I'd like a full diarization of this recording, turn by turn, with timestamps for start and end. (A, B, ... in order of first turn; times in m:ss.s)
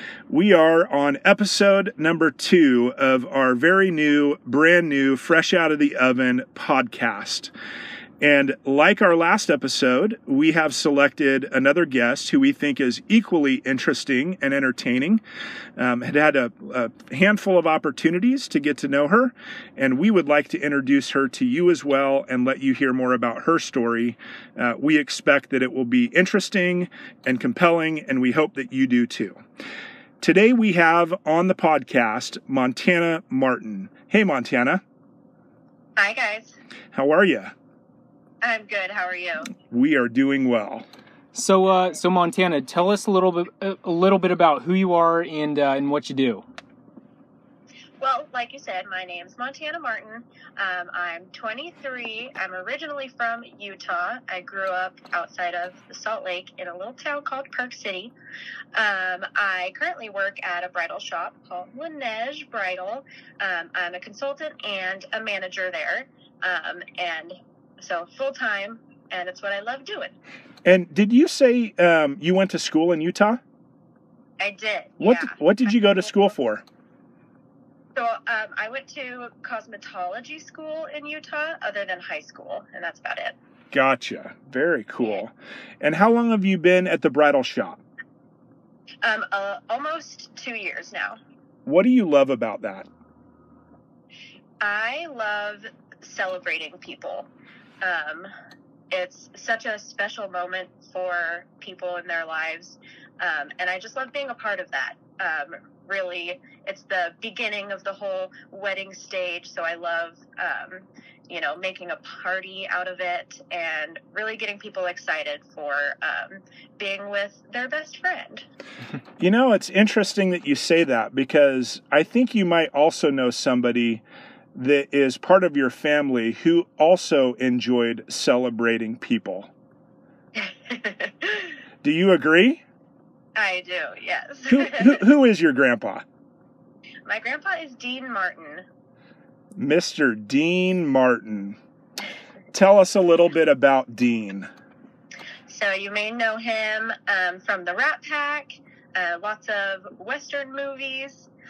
0:00.3-0:07.5 A
0:08.2-0:15.2 A
0:15.8-0:29.4 A
0:30.2-0:34.8 A
0:36.0-0:36.5 B
0:36.9-0:37.5 A
0:38.4-0:39.5 B
0:39.7-0:40.8 A
0:41.3-0:46.4 C
0:48.0-0:58.1 B
0:58.7-1:10.2 B
1:10.6-1:13.4 A
1:14.4-1:16.1 B
1:15.0-1:16.6 A
1:17.9-1:23.4 B
1:23.7-1:27.8 A
1:29.0-1:31.2 B
1:31.6-1:32.9 A
1:34.6-1:37.3 B
1:37.8-1:38.3 B
1:38.9-1:58.5 B
1:59.2-2:09.5 A
2:10.3-2:11.6 B
2:11.8-2:12.6 A
2:13.4-2:15.0 B
2:14.5-2:16.0 A
2:17.0-2:18.6 B
2:19.6-2:21.6 A
2:22.5-2:24.5 A
2:25.5-2:31.3 B